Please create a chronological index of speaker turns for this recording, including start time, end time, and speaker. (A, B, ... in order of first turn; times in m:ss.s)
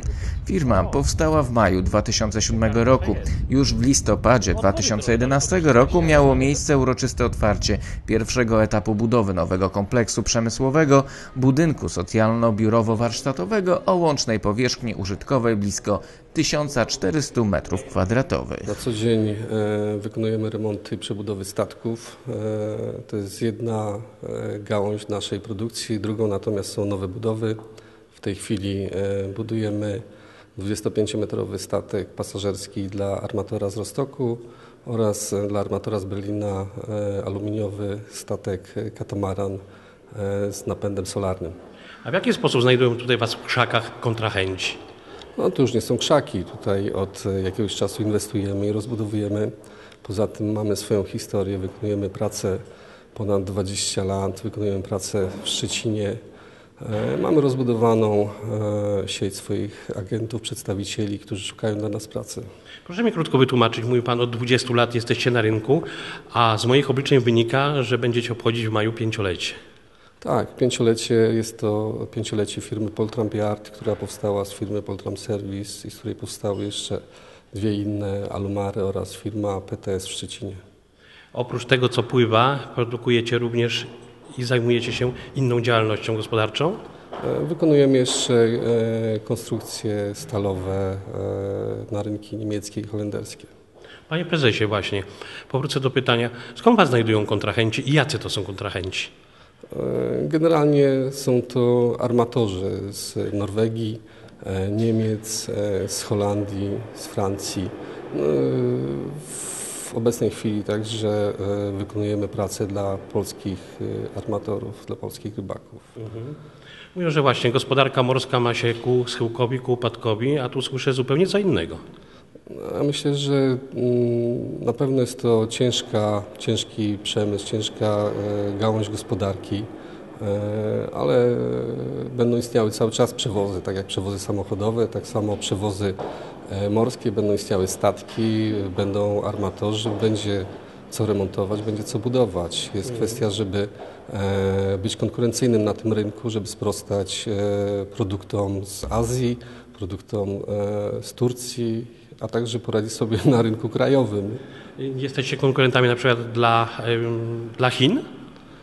0:00.4-0:18.7 A
0:04.7-0:05.4 B
0:18.6-0:27.6 C
0:28.1-0:30.0 C
0:30.6-0:39.6 C
0:40.1-0:41.5 C
0:42.0-0:44.8 B
0:45.4-0:49.5 C
0:50.0-0:52.6 C
0:53.1-0:56.2 C
0:56.8-1:02.4 C
1:02.8-1:09.6 B
1:10.2-1:17.0 C
1:17.5-1:20.6 C
1:21.3-1:26.8 B
1:27.2-1:33.5 C
1:34.1-1:39.1 B
1:39.7-1:55.9 C
1:56.0-1:56.4 B
1:56.9-2:01.8 B
2:02.5-2:09.7 C
2:10.2-2:34.4 C
2:22.9-2:23.2 B
2:34.8-2:38.0 B